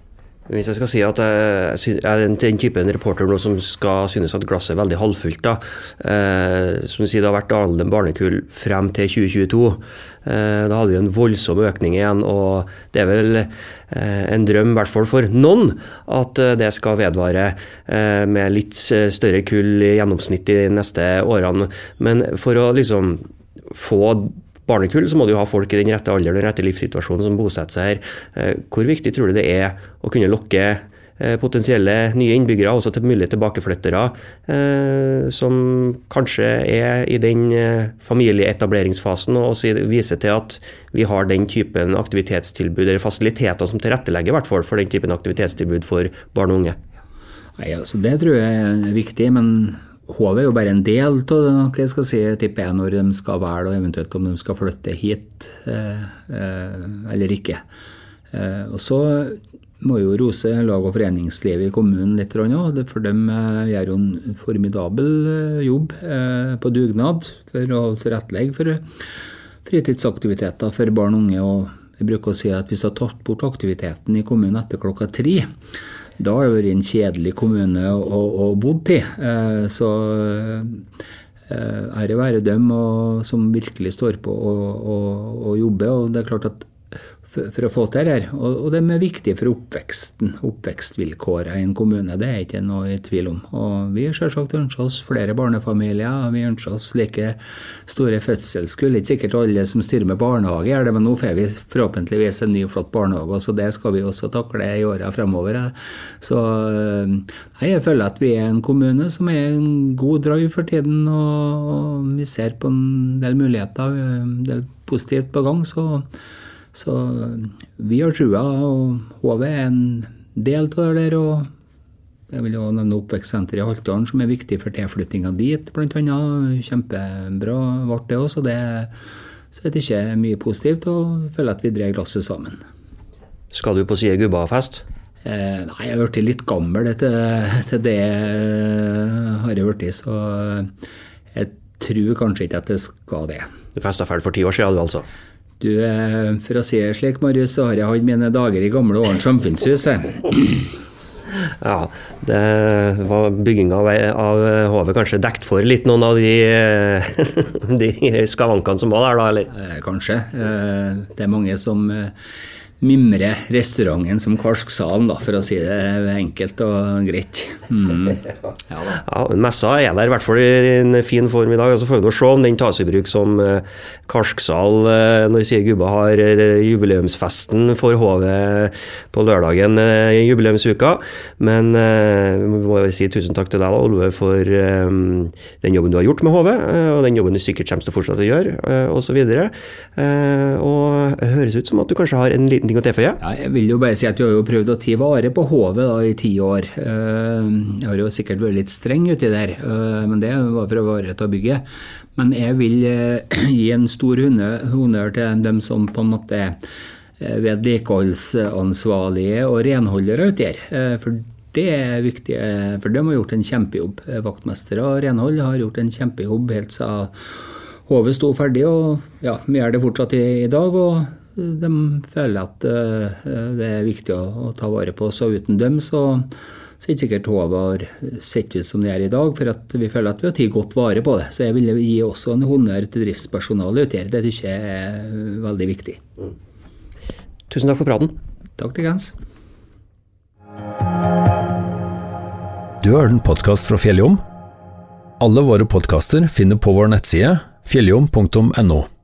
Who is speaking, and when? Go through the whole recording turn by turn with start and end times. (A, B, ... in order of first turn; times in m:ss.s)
0:00.5-0:46.8 A
0:47.6-0:57.6 B
0:58.3-1:08.8 B
1:09.6-1:15.5 B
1:16.2-1:20.8 B
1:21.5-1:26.7 B
1:27.3-1:56.1 B
1:56.7-2:01.5 B
2:02.3-2:08.9 B
2:09.5-2:12.6 B
2:13.5-2:14.8 A
2:15.2-2:20.7 B
2:21.3-2:23.5 B
2:23.8-2:25.0 A
2:25.6-2:30.7 B
2:31.3-2:39.5 A
2:39.5-2:42.1 B
2:42.8-2:48.9 B
2:48.9-3:13.2 A
3:13.2-3:21.6 B
3:22.2-3:26.6 B
3:27.2-3:37.2 B
3:37.9-3:56.0 B
3:57.5-3:58.2 A
3:58.6-3:59.2 B
4:02.8-4:04.2 C
4:05.2-4:08.9 C